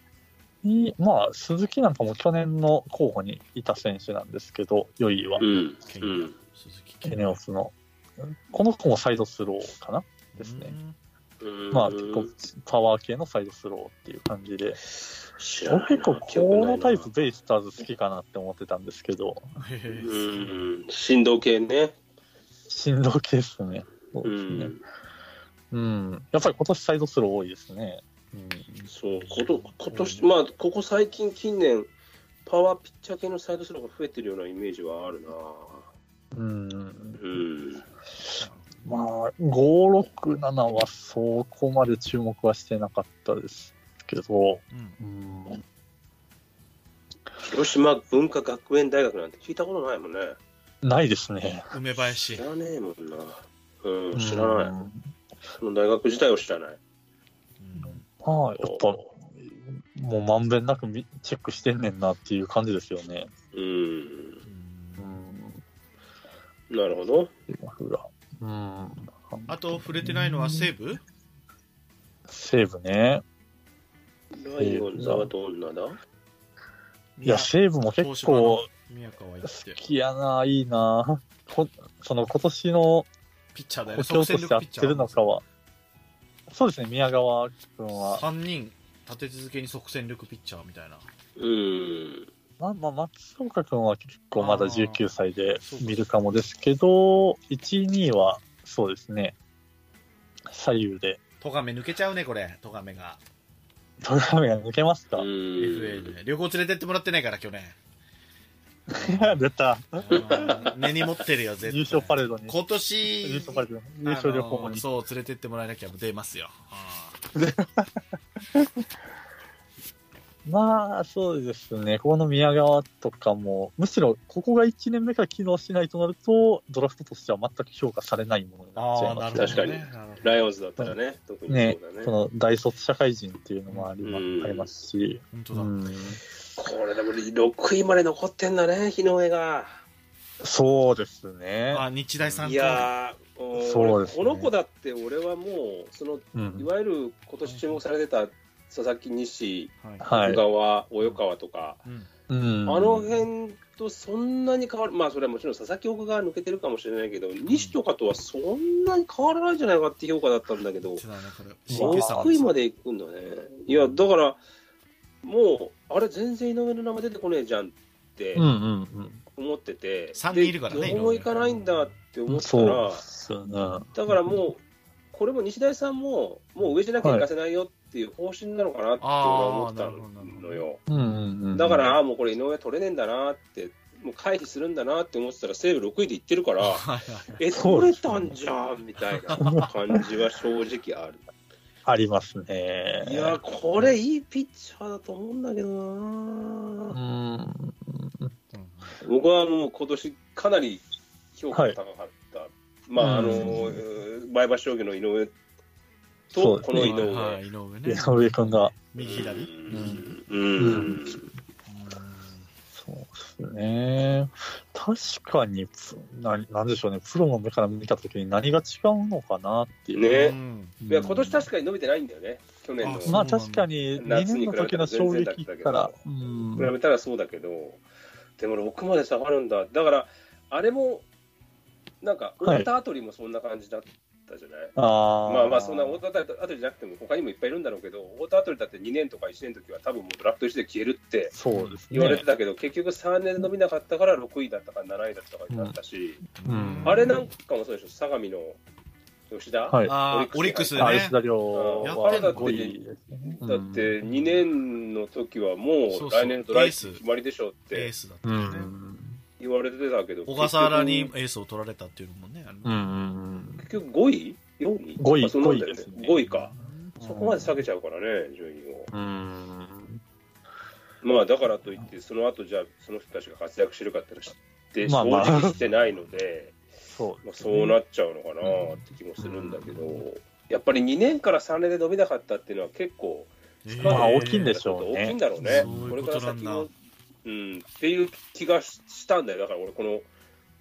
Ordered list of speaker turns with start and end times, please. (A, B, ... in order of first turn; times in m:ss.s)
0:00.6-0:05.5 A
0:05.4-0:06.4 B
0:05.8-0:07.3 C
0:07.0-0:10.8 A
0:10.4-0:11.0 C
0:11.4-0:12.3 B
0:11.7-0:14.8 A
0:15.0-0:17.1 B
0:15.7-0:19.5 A
0:19.6-0:20.7 C
0:19.9-0:22.0 B
0:22.7-0:24.7 A
0:24.2-0:24.8 B
0:25.7-0:28.8 A
0:28.8-0:30.3 C
0:28.9-0:31.9 B
0:32.4-0:35.9 B
0:36.3-0:37.2 A
0:37.2-0:37.8 B
0:38.3-0:38.9 C
0:38.8-0:45.6 A
0:44.7-0:45.0 C
0:47.4-0:50.4 B
0:50.8-0:51.7 A
0:51.7-0:52.5 C
0:52.3-0:54.7 B
0:54.1-0:55.0 A
0:55.6-0:56.8 B
0:57.6-0:58.0 C
0:58.2-1:03.3 A
0:58.6-0:58.9 B
1:03.5-1:04.4 B
1:04.4-1:05.2 C
1:05.0-1:05.6 A
1:06.7-1:07.3 B
1:07.5-1:10.7 A
1:09.5-1:11.0 C
1:12.3-1:13.2 A
1:14.3-1:16.0 B
1:14.6-1:15.3 A
1:17.2-1:19.8 C
1:17.2-1:18.7 A
1:19.4-1:23.1 A
1:23.5-1:25.4 C
1:23.9-1:25.4 A
1:26.5-1:28.2 A
1:27.9-1:31.1 C
1:31.4-1:32.3 B
1:32.6-1:39.4 A
1:34.4-1:35.0 C
1:35.6-1:36.0 C
1:40.5-1:41.2 A
1:41.4-1:43.2 C
1:44.0-1:45.3 A
1:45.2-1:46.1 B
1:45.6-1:47.8 C
1:48.9-1:50.5 A
1:48.9-1:49.4 C
1:50.0-1:57.2 C
1:50.1-1:50.8 B
1:51.6-1:52.6 A
1:53.2-1:54.8 A
1:57.4-1:58.0 A
2:00.5-2:09.8 A
2:08.8-2:10.4 C
2:09.4-2:12.1 B
2:11.5-2:16.2 A
2:13.7-2:13.9 C
2:14.0-2:14.7 B
2:15.3-2:15.7 C
2:16.6-2:19.8 B
2:20.4-2:21.8 A
2:21.7-2:22.9 C
2:22.4-2:31.8 B
2:23.5-2:24.5 A
2:26.4-2:26.7 A
2:27.5-2:27.8 C
2:29.8-2:30.1 C
2:30.0-2:30.4 A
2:32.3-2:33.3 A
2:32.7-2:41.0 B
2:37.5-2:37.8 C
2:41.0-2:42.5 C
2:41.7-2:42.3 A
2:41.7-2:44.4 B
2:45.2-2:48.5 B
2:48.4-2:49.2 A
2:49.4-2:53.0 B
2:50.2-2:52.0 C
2:52.3-2:54.4 A
2:54.0-2:54.6 B
2:55.1-3:00.8 B
2:57.0-2:57.3 A
2:59.0-3:00.6 C
3:00.9-3:02.0 A
3:01.6-3:06.8 B
3:06.6-3:07.4 C
3:07.4-3:11.2 B
3:07.5-3:08.4 A
3:09.2-3:09.5 C
3:09.4-3:10.0 A
3:11.9-3:13.4 A
3:13.0-3:17.0 B
3:16.9-3:18.3 A
3:18.5-3:19.0 C
3:19.0-3:25.3 B
3:21.5-3:21.8 A
3:23.0-3:23.8 A
3:26.3-3:27.4 B
3:26.3-3:27.1 A
3:26.8-3:30.2 C
3:27.9-3:28.8 A
3:29.0-3:31.3 B
3:29.7-3:30.0 A
3:30.6-3:31.2 A
3:31.7-3:32.5 C
3:32.8-3:40.2 A
3:39.9-3:43.2 B
3:40.1-3:40.8 C
3:40.8-3:41.4 A
3:42.8-3:43.7 C
3:43.1-3:46.7 A
3:44.0-3:45.9 B
3:46.6-3:47.8 B
3:48.4-3:51.1 B
3:52.0-3:54.7 B
3:52.4-3:52.7 A
3:54.8-3:56.0 A
3:55.3-4:01.3 B
4:01.3-4:02.2 A
4:01.5-4:01.8 C
4:01.9-4:06.2 B
4:06.4-4:07.2 C
4:06.4-4:07.2 A
4:06.8-4:08.6 B
4:09.3-4:12.8 B
4:09.7-4:10.0 A
4:09.8-4:11.2 C
4:10.8-4:13.9 A
4:11.8-4:12.7 C
4:13.4-4:17.9 B
4:14.0-4:14.4 C
4:15.9-4:17.0 C
4:17.7-4:18.7 C
4:18.2-4:19.2 A
4:19.4-4:21.1 B
4:20.3-4:22.8 C
4:22.6-4:23.7 A
4:23.6-4:28.9 B
4:25.0-4:26.3 A
4:26.2-4:27.0 C
4:27.0-4:27.6 A
4:28.9-4:30.0 A
4:31.0-4:36.6 B
4:34.8-4:35.6 A
4:35.3-4:36.2 C
4:36.9-4:37.8 A
4:37.2-4:46.7 B
4:38.4-4:40.0 A
4:43.6-4:44.6 C
4:43.9-4:45.9 A
4:45.4-4:46.7 C
4:47.2-4:50.1 B